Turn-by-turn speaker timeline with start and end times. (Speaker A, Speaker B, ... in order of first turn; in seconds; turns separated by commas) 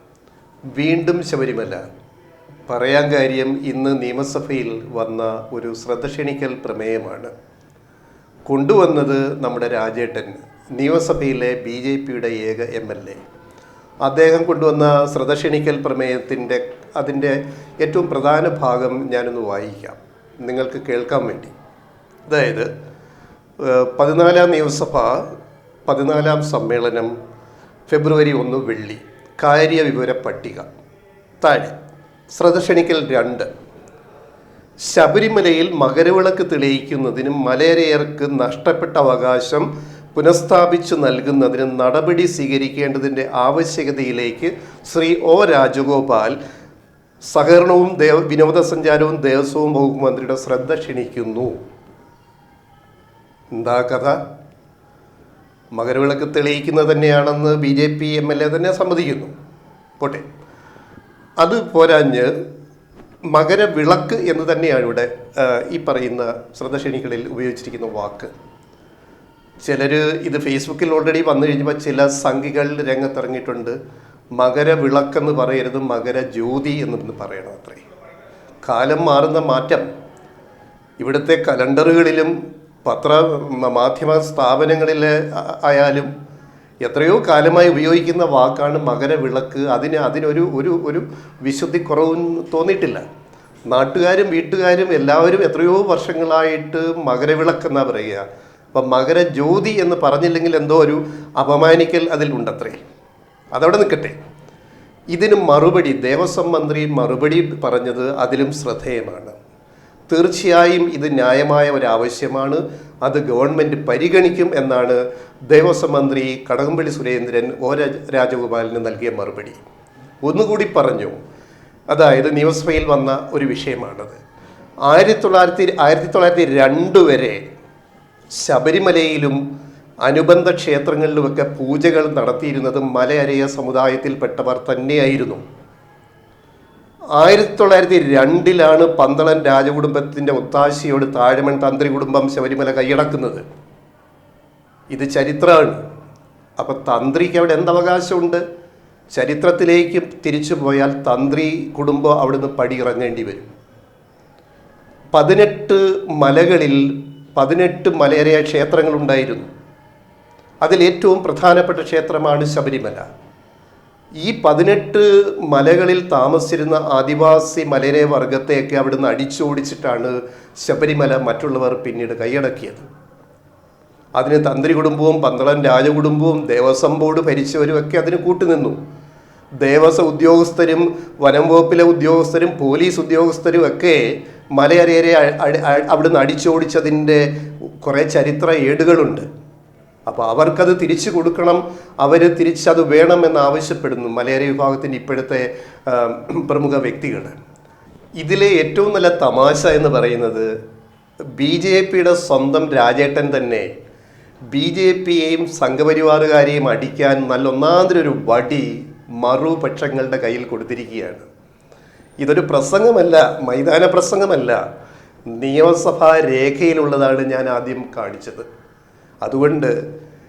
Speaker A: 0.7-1.8, Speaker A: 2.7-7.3, Speaker A: 8.5-13.2, Speaker A: 14.0-21.5, Speaker A: 22.3-22.7, Speaker A: 23.6-25.3, Speaker A: 25.9-27.1, Speaker A: 27.9-30.7, Speaker A: 31.4-31.7, Speaker A: 32.3-33.5, Speaker A: 34.8-46.4, Speaker A: 47.2-51.5, Speaker A: 53.5-54.2, Speaker A: 55.7-59.3, Speaker A: 60.0-60.2, Speaker A: 61.4-62.3, Speaker A: 63.3-68.3, Speaker A: 69.6-73.8, Speaker A: 74.4-77.8, Speaker A: 78.6-79.9, Speaker A: 81.0-86.1, Speaker A: 86.8-93.0, Speaker A: 93.7-102.8, Speaker A: 103.5-104.2, Speaker A: 105.1-109.3, Speaker A: 110.1-119.6, Speaker A: 120.2-121.1, Speaker A: 121.9-124.2, Speaker A: 124.9-127.4, Speaker A: 128.4-129.4, Speaker A: 130.0-135.4, Speaker A: 137.2-143.4, Speaker A: 144.9-145.8, Speaker A: 146.6-148.4, Speaker A: 149.1-153.5, Speaker A: 155.1-159.5, Speaker A: 160.6-163.0, Speaker A: 164.2-172.9, Speaker A: 174.2-178.8, Speaker A: 179.6-187.3, Speaker A: 187.8-189.3, Speaker A: 190.1-197.3, Speaker A: 198.2-200.5, Speaker A: 201.3-203.7, Speaker A: 204.5-211.3, Speaker A: 212.2-214.6, Speaker A: 215.3-218.4, Speaker A: 219.2-219.8